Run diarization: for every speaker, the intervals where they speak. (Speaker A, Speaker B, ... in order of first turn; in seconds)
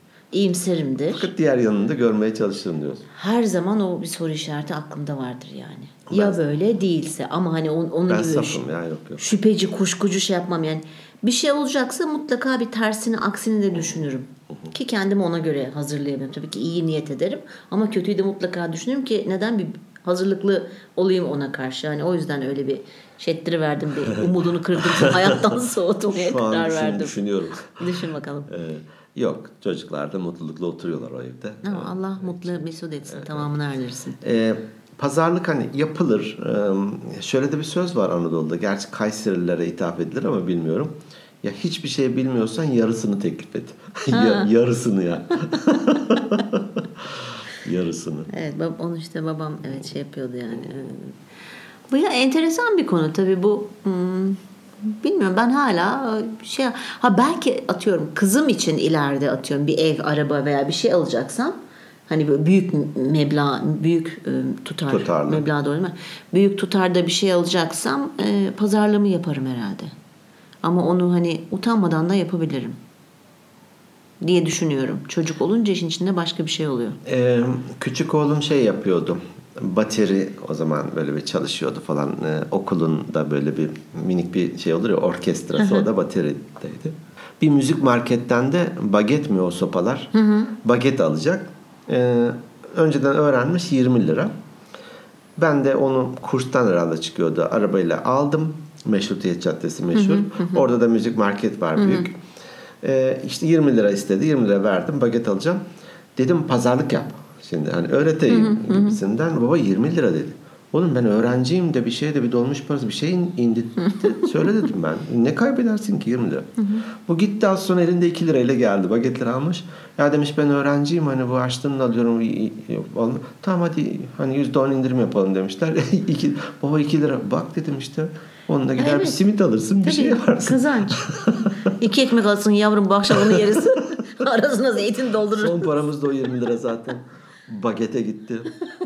Speaker A: 0.3-1.3, 3.1-8.6, 9.2-27.2, 27.8-28.5, 31.6-34.2, 44.1-44.5, 48.3-51.1, 51.9-61.5, 62.1-69.9, 70.6-72.8, 74.2-77.0, 85.6-85.9, 90.1-90.5, 99.9-100.7, 101.8-102.1, 108.3-109.0, 113.8-114.3, 116.6-116.9, 128.8-129.2, 129.8-135.8
Speaker B: 1.1-3.1, 6.1-6.4, 8.1-9.3, 24.1-25.6, 26.1-27.9, 28.5-33.5, 34.2-48.3, 64.9-65.5, 77.0-94.3, 95.4-102.2, 102.8-105.6, 106.2-131.7, 133.2-133.5, 135.3-138.6